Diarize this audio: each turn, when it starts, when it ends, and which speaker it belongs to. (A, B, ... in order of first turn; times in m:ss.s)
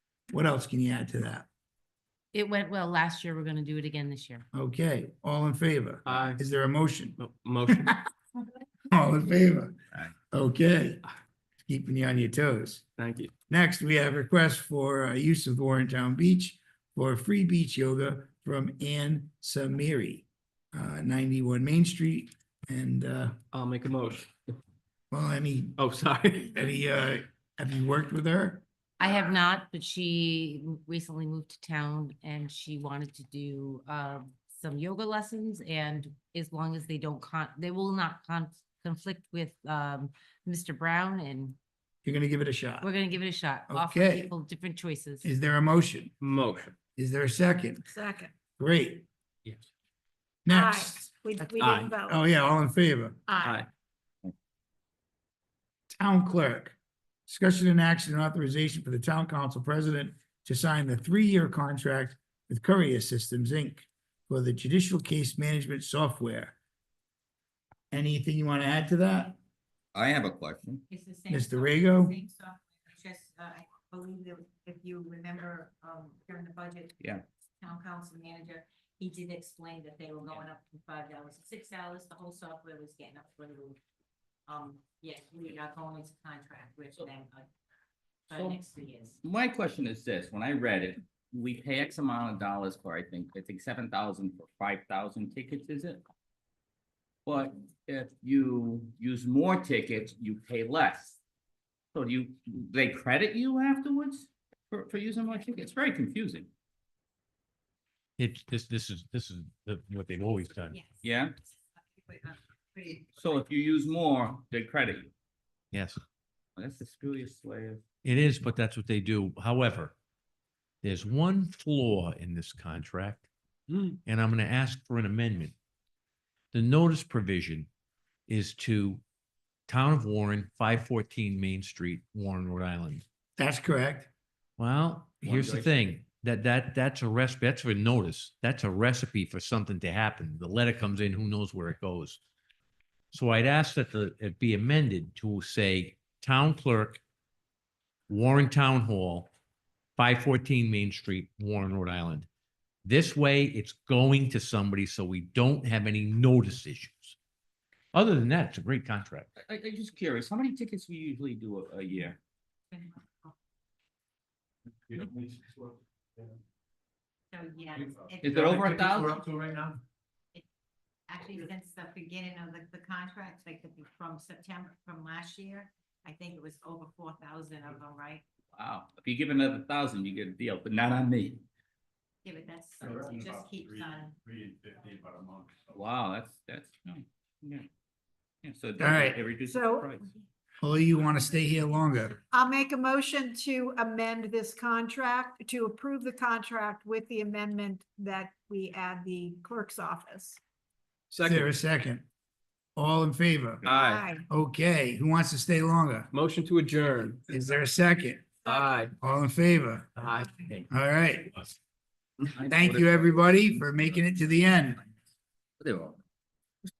0:00.3-0:01.5 A
0:02.3-0:04.4 B
0:04.5-0:08.0 A
0:06.0-0:06.4 C
0:07.2-0:07.9 C
0:08.9-0:09.8 A
0:10.3-0:11.0 A
0:11.6-0:12.8 A
0:13.0-0:13.3 C
0:13.5-0:23.4 A
0:23.5-0:24.5 C
0:25.1-0:25.8 A
0:25.8-0:26.6 C
0:26.5-0:28.6 A
0:29.0-0:41.6 B
0:42.0-0:42.9 A
0:42.8-0:45.2 B
0:43.7-0:44.3 A
0:45.2-0:46.1 A
0:46.2-0:46.7 C
0:47.0-0:47.8 A
0:47.9-0:48.3 D
0:48.6-0:49.1 A
0:50.4-0:53.2 A
0:50.5-0:52.2 D
0:53.3-0:53.6 D
0:55.9-0:56.8 A
0:57.3-1:06.6 A
1:07.9-1:09.4 A
1:09.9-1:10.8 E
1:10.9-1:17.1 F
1:11.3-1:12.1 A
1:17.6-1:23.8 F
1:24.5-1:27.5 F
1:28.3-1:29.2 F
1:28.3-1:28.6 E
1:29.2-1:36.0 E
1:37.2-1:41.2 E
1:41.9-1:46.5 E
1:48.2-1:50.8 G
1:50.7-1:53.4 F
1:51.0-1:51.3 E
1:53.2-1:55.1 E
1:55.7-1:56.0 G
1:56.6-1:57.8 E
1:58.0-1:59.9 G
2:00.8-2:03.3 G
2:03.7-2:04.0 C
2:04.0-2:05.5 G
2:06.5-2:07.7 G
2:08.3-2:09.0 G
2:09.7-2:13.0 G
2:13.4-2:14.1 A
2:14.6-2:22.2 G
2:15.2-2:15.7 E
2:23.1-2:27.0 G
2:28.1-2:29.3 G
2:30.0-2:32.3 G
2:32.8-2:37.2 G
2:37.9-2:39.3 G
2:39.4-2:42.2 E
2:42.7-2:43.3 F
2:47.3-2:49.5 F
2:48.2-2:49.2 E
2:51.1-2:58.2 F
2:58.6-3:01.4 E
3:02.2-3:04.2 F
3:05.7-3:07.7 E
3:08.4-3:10.1 E
3:08.8-3:09.2 A
3:09.5-3:09.9 D
3:10.6-3:12.2 A
3:12.3-3:20.4 D
3:21.1-3:21.5 C
3:21.2-3:22.0 A
3:22.8-3:23.7 A
3:23.6-3:24.1 C
3:23.7-3:24.2 D
3:24.3-3:26.1 A
3:26.1-3:27.2 C
3:27.3-3:28.4 A
3:28.4-3:28.9 C
3:29.0-3:29.9 A
3:30.0-3:30.6 C
3:30.7-3:31.5 A
3:32.3-3:33.2 E
3:32.5-3:34.8 A
3:35.6-3:36.0 E